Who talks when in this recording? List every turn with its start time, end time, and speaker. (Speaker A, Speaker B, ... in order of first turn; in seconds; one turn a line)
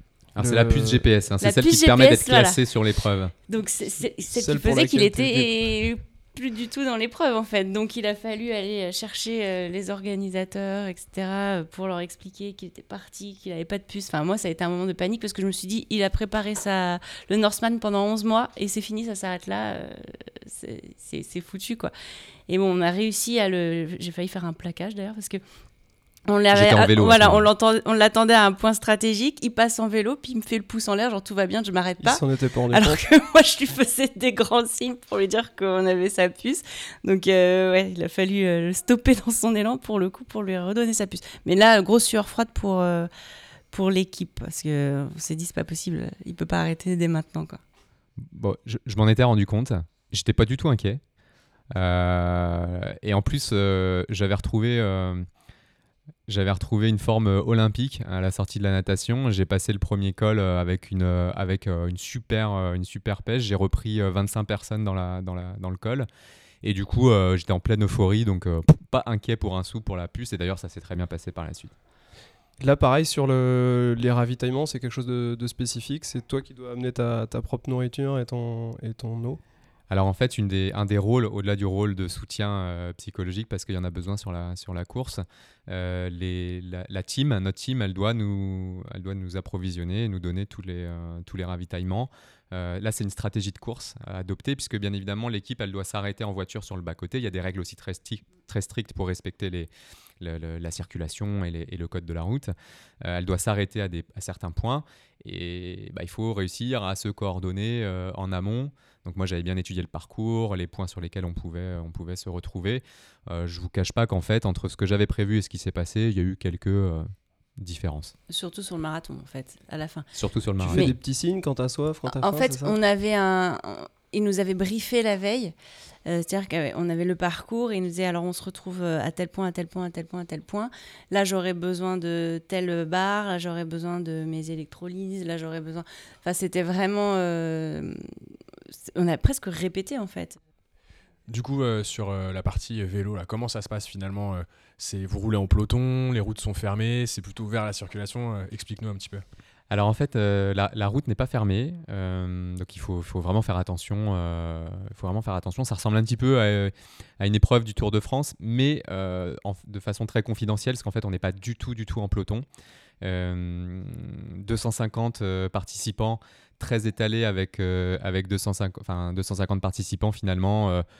Speaker A: 0.3-3.3
Speaker B: 0.4-1.1
Speaker C: 1.4-2.6
Speaker C: 3.5-21.9
Speaker B: 4.3-5.6
Speaker C: 22.5-25.4
Speaker C: 26.3-43.1
Speaker A: 26.5-27.4
Speaker B: 32.0-33.0
Speaker C: 43.7-47.6
Speaker A: 48.2-51.0
Speaker A: 51.7-55.3
Speaker A: 56.3-66.1
Speaker A: 66.6-71.7
Speaker B: 72.6-79.4
Speaker A: 79.9-99.7
Speaker A: 100.2-102.5
Speaker A: 103.0-117.1
Speaker A: 117.6-118.1
Speaker C: 118.3-120.1
Speaker A: 120.1-120.9
Speaker B: 120.6-122.8
Speaker C: 122.1-125.5
Speaker C: 126.1-138.0
Speaker C: 138.9-140.4
Speaker D: 141.3-149.2
Speaker A: 149.7-162.4
Speaker A: 163.0-170.8